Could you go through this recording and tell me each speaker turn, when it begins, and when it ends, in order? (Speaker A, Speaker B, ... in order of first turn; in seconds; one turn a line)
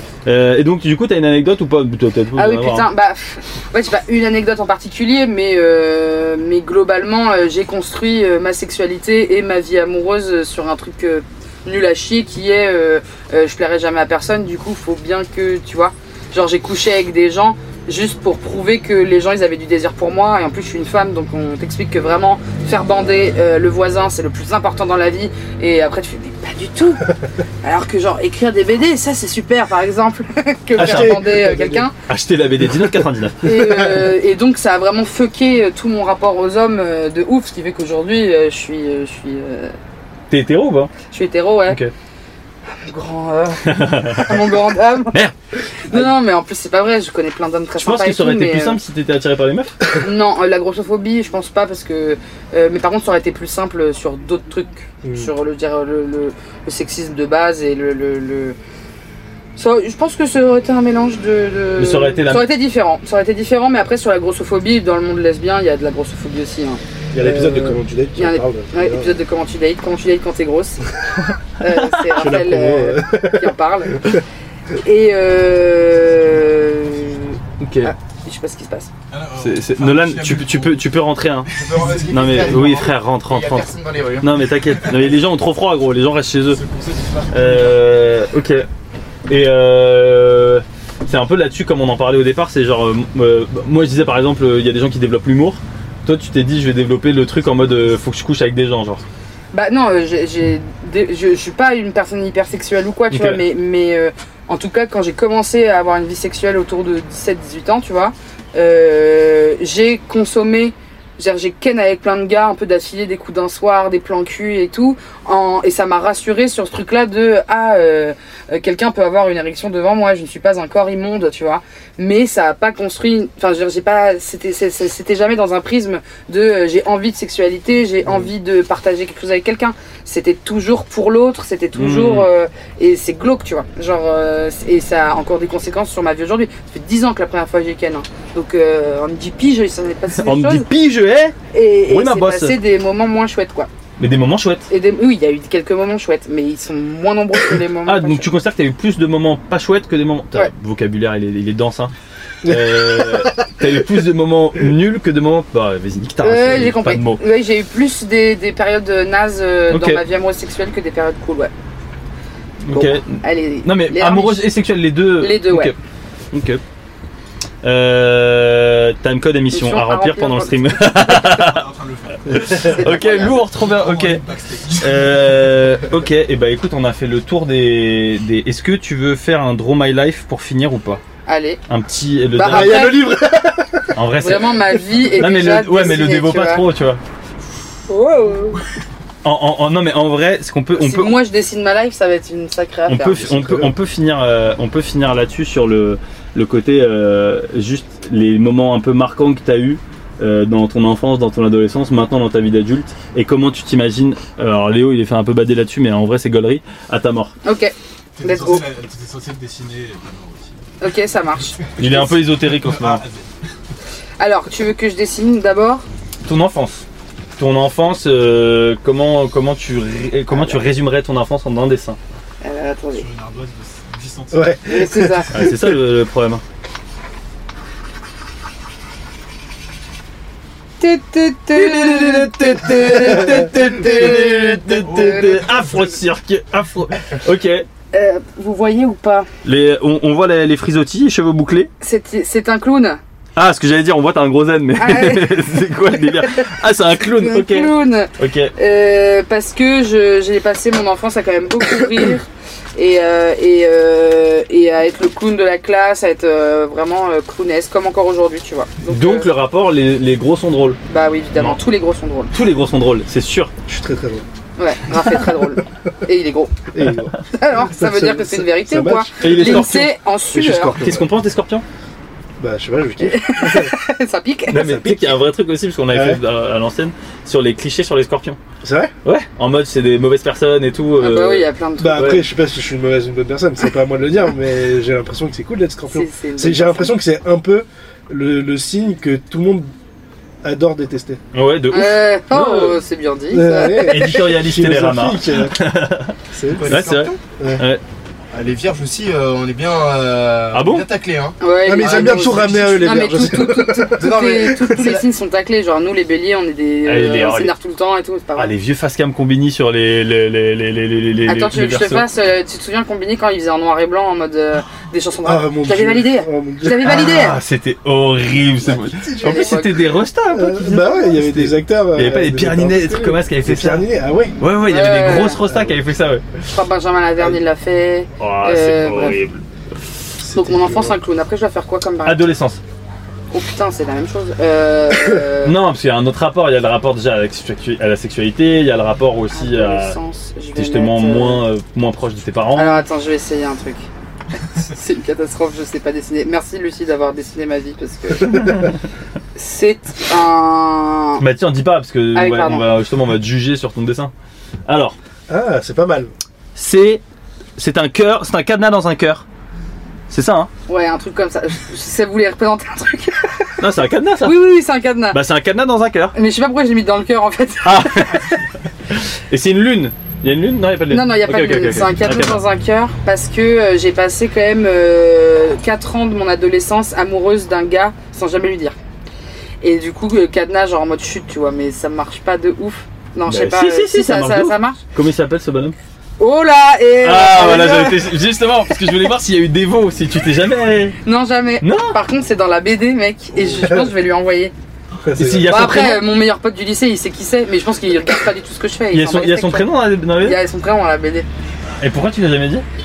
Speaker A: 0.2-2.9
Speaker B: 2.4-27.1
Speaker B: 27.6-31.9
Speaker A: 30.8-31.2
Speaker C: 30.8-31.9
Speaker A: 32.1-33.4
Speaker B: 33.4-39.7
Speaker C: 33.4-34.1
Speaker A: 40.3-40.9
Speaker B: 41.1-41.8
Speaker B: 42.8-45.2
Speaker A: 43.6-44.5
Speaker B: 45.8-48.8
Speaker A: 47.8-49.8
Speaker B: 50.0-58.6
Speaker C: 55.0-55.3
Speaker B: 59.5-70.9
Speaker A: 61.8-62.5
Speaker C: 67.1-69.2
Speaker B: 71.6-74.2
Speaker A: 71.7-72.2
Speaker C: 72.2-74.2
Speaker B: 74.8-78.9
Speaker D: 76.2-77.4
Speaker A: 77.6-77.9
Speaker D: 79.1-80.8
Speaker A: 79.3-81.5
Speaker D: 81.5-82.7
Speaker E: 81.6-84.3
Speaker A: 82.1-86.6
Speaker D: 86.5-87.8
Speaker A: 87.3-88.7
Speaker A: 89.3-99.0
Speaker B: 99.5-140.7
Speaker A: 103.1-103.4
Speaker A: 131.7-132.3
Speaker A: 140.1-142.6
Speaker B: 141.5-143.7
Speaker A: 144.0-144.7
Speaker B: 144.7-148.3
Speaker A: 147.8-151.9
Speaker C: 152.4-153.5
Speaker A: 152.4-157.2
Speaker B: 156.2-161.5
Speaker A: 159.7-160.0
Speaker A: 162.6-165.8
Speaker B: 162.7-164.5
Speaker B: 165.2-165.7
Speaker A: 166.3-166.6
Speaker A: 167.6-171.7
Speaker B: 169.5-170.6
Speaker D: 171.0-172.8
Speaker A: 172.3-174.2
Speaker B: 172.6-173.4
Speaker D: 173.5-175.8
Speaker A: 174.8-181.0
Speaker B: 181.2-181.6
Speaker A: 181.7-183.1
Speaker B: 182.3-183.1
Speaker C: 182.4-184.0
Speaker A: 183.9-187.0
Speaker B: 184.2-186.6
Speaker B: 187.9-188.6
Speaker A: 189.2-191.2
Speaker B: 190.8-193.3
Speaker A: 192.9-207.3
Speaker C: 193.2-193.7
Speaker B: 207.4-208.6
Speaker D: 208.2-210.6
Speaker B: 210.8-212.1
Speaker A: 211.8-213.0
Speaker D: 211.8-213.3
Speaker B: 214.2-215.8
Speaker A: 216.2-216.8
Speaker A: 217.4-222.0
Speaker B: 222.4-223.1
Speaker D: 222.9-224.6
Speaker C: 224.3-225.7
Speaker B: 224.7-225.3
Speaker A: 225.3-226.4
Speaker B: 230.8-235.9
Speaker A: 231.5-237.7
Speaker D: 234.9-235.4
Speaker B: 237.9-239.3
Speaker A: 239.4-241.7
Speaker B: 241.8-243.0
Speaker A: 243.3-248.5
Speaker B: 244.8-245.3
Speaker B: 247.0-259.3
Speaker A: 258.8-260.8
Speaker B: 260.9-262.3
Speaker A: 262.3-263.5
Speaker C: 263.7-264.2
Speaker B: 264.6-266.6
Speaker C: 264.9-265.6
Speaker C: 266.7-271.1
Speaker B: 267.2-270.9
Speaker A: 269.2-269.9
Speaker A: 270.8-271.6
Speaker C: 272.4-273.8
Speaker B: 273.0-274.7
Speaker A: 274.5-278.4
Speaker C: 274.5-275.1
Speaker C: 275.9-276.2
Speaker C: 278.6-278.9
Speaker A: 279.0-282.2
Speaker B: 281.0-282.2
Speaker C: 281.8-289.7
Speaker B: 285.9-287.0
Speaker C: 290.4-291.2
Speaker A: 291.3-292.8
Speaker B: 291.7-294.3
Speaker C: 293.3-295.6
Speaker A: 293.8-297.8
Speaker C: 296.3-297.6
Speaker E: 296.5-297.1
Speaker D: 296.6-297.1
Speaker E: 298.3-302.7
Speaker A: 300.5-300.9
Speaker B: 301.4-308.5
Speaker C: 301.6-305.0
Speaker E: 304.0-304.7
Speaker A: 306.8-307.5
Speaker A: 308.3-312.1
Speaker B: 311.3-317.4
Speaker C: 315.2-317.1
Speaker A: 316.8-323.9
Speaker C: 318.7-319.4
Speaker B: 319.1-319.9
Speaker C: 320.3-324.4
Speaker A: 324.4-326.4
Speaker B: 324.6-325.4
Speaker C: 325.4-325.8
Speaker B: 326.5-329.2
Speaker A: 328.2-329.4
Speaker C: 330.2-330.9
Speaker B: 330.3-332.3
Speaker A: 332.0-332.6
Speaker B: 333.3-335.5
Speaker A: 335.4-340.0
Speaker B: 339.3-341.4
Speaker A: 340.5-342.8
Speaker B: 342.5-348.7
Speaker C: 348.2-348.7
Speaker B: 349.4-351.2
Speaker A: 351.2-354.1
Speaker B: 352.1-352.6
Speaker A: 354.6-355.0
Speaker C: 355.3-356.1
Speaker A: 356.6-357.0
Speaker A: 357.6-359.2
Speaker A: 360.1-360.5
Speaker B: 360.7-363.6
Speaker A: 363.6-364.4
Speaker B: 364.2-365.2
Speaker A: 365.1-366.1
Speaker B: 366.1-368.4
Speaker A: 367.6-368.3
Speaker A: 368.9-372.4
Speaker B: 370.9-378.8
Speaker B: 379.6-384.8
Speaker A: 383.3-385.8
Speaker B: 386.2-388.1
Speaker A: 387.0-391.0
Speaker B: 391.0-394.5
Speaker A: 391.6-392.0
Speaker C: 393.6-393.9
Speaker C: 395.0-395.5
Speaker A: 395.1-396.0
Speaker B: 395.4-401.3
Speaker A: 398.9-400.4
Speaker A: 401.8-402.6